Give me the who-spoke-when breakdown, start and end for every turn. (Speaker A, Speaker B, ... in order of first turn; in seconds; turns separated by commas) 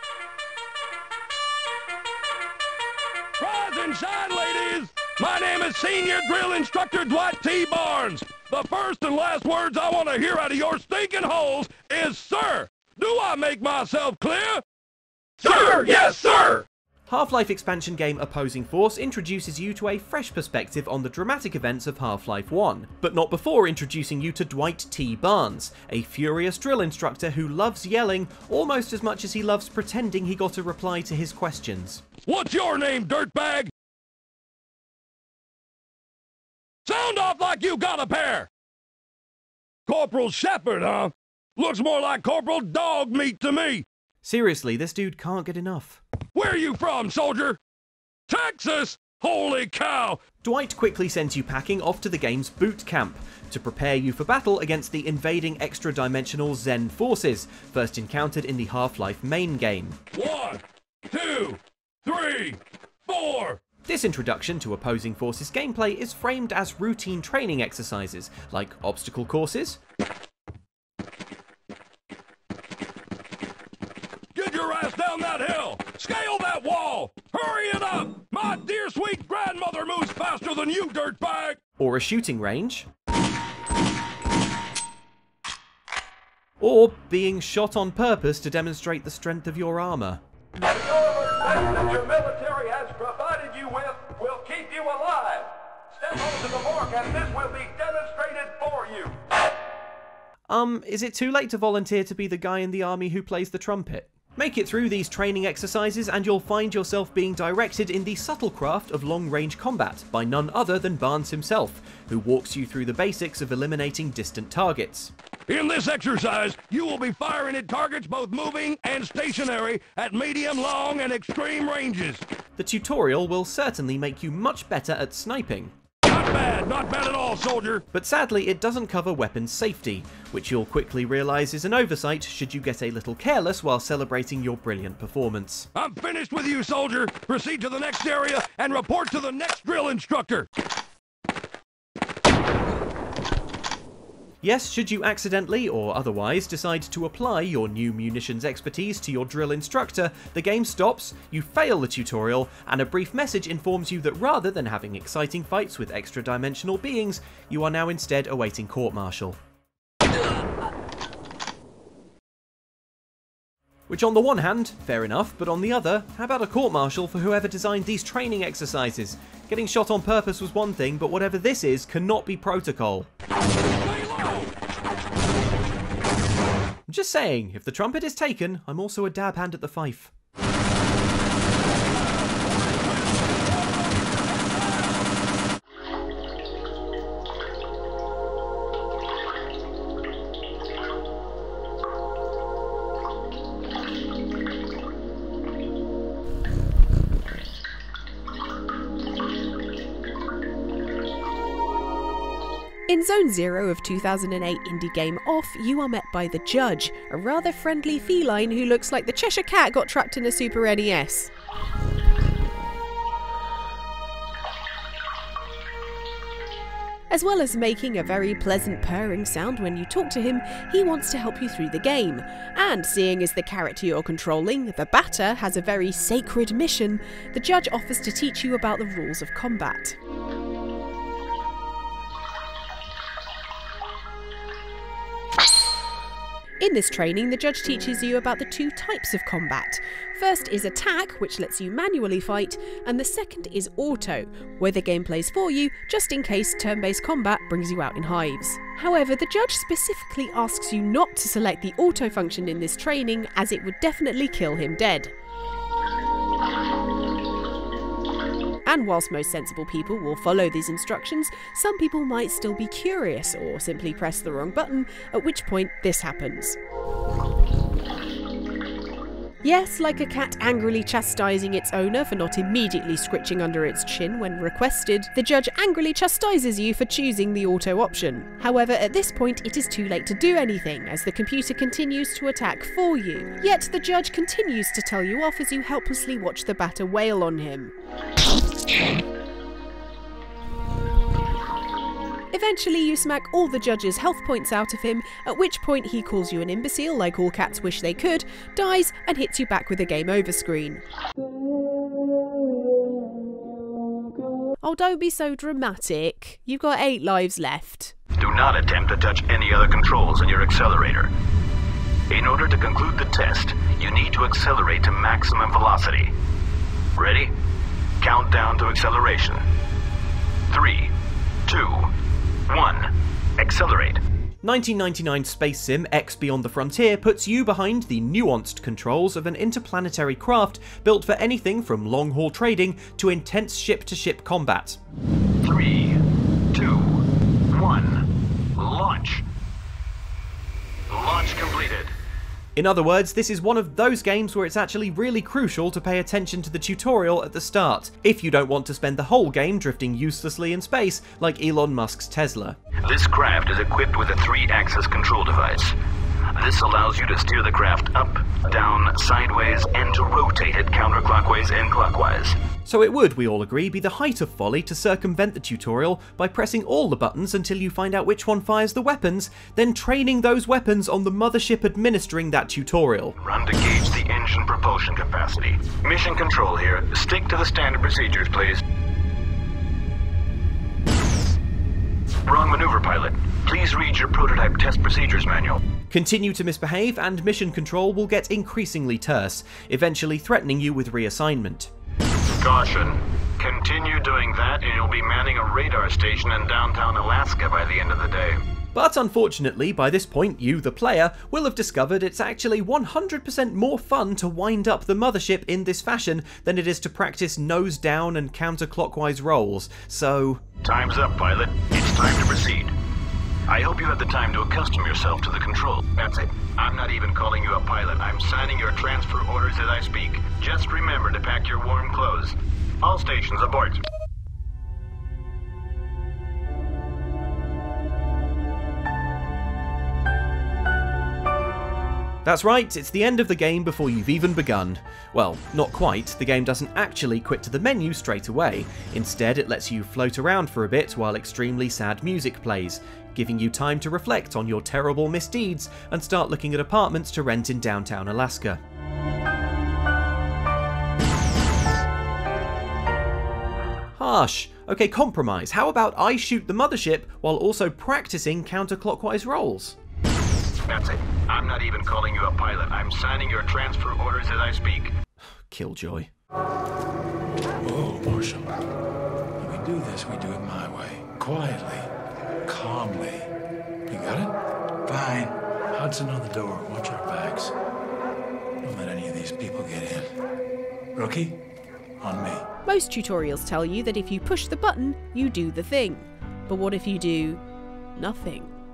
Speaker A: 3.4-14.6, Speaker A: 15.4-16.6, Speaker B: 17.1-32.0, Speaker A: 32.2-33.7, Speaker A: 36.8-38.5, Speaker A: 39.9-43.8, Speaker B: 44.2-46.0, Speaker A: 46.3-47.6, Speaker A: 48.3-50.2, Speaker B: 50.4-60.0, Speaker A: 60.1-63.6, Speaker B: 63.9-69.8, Speaker A: 74.3-81.6, Speaker B: 81.8-82.9, Speaker B: 86.6-90.2, Speaker A: 90.7-99.2, Speaker B: 100.5-115.1, Speaker A: 115.5-122.2, Speaker B: 122.6-125.7, Speaker A: 126.0-127.8, Speaker B: 127.9-135.7, Speaker A: 135.7-140.5, Speaker B: 144.4-159.4, Speaker B: 163.9-173.1, Speaker A: 173.8-174.5, Speaker B: 176.9-180.1, Speaker C: 202.9-211.3, Speaker C: 217.1-230.0, Speaker C: 236.6-255.1, Speaker C: 258.6-266.6, Speaker C: 269.4-287.7, Speaker C: 292.3-300.8, Speaker C: 304.6-307.9, Speaker D: 308.2-311.1, Speaker D: 312.1-316.1, Speaker D: 316.9-317.3, Speaker D: 318.0-319.4, Speaker D: 320.5-320.9, Speaker D: 321.5-321.9, Speaker D: 322.5-324.0, Speaker B: 324.4-334.8, Speaker D: 335.4-336.0, Speaker D: 336.5-338.0, Speaker D: 338.6-339.2, Speaker D: 340.9-341.9, Speaker B: 342.6-352.6, Speaker D: 352.8-355.8, Speaker D: 356.4-362.4, Speaker B: 362.6-373.1, Speaker D: 373.2-378.6, Speaker D: 382.2-385.6, Speaker B: 385.9-391.7, Speaker D: 392.4-398.4, Speaker B: 398.7-410.4, Speaker D: 410.6-412.7, Speaker D: 413.5-423.8, Speaker B: 432.2-448.6, Speaker B: 453.9-459.8, Speaker D: 460.7-464.9, Speaker B: 465.5-466.1, Speaker E: 467.6-468.5, Speaker E: 469.4-471.9, Speaker E: 472.5-473.3, Speaker E: 473.9-474.3, Speaker E: 474.9-477.5, Speaker E: 478.6-480.0, Speaker E: 480.9-481.4, Speaker E: 482.0-482.4, Speaker C: 482.6-487.4, Speaker C: 487.9-488.5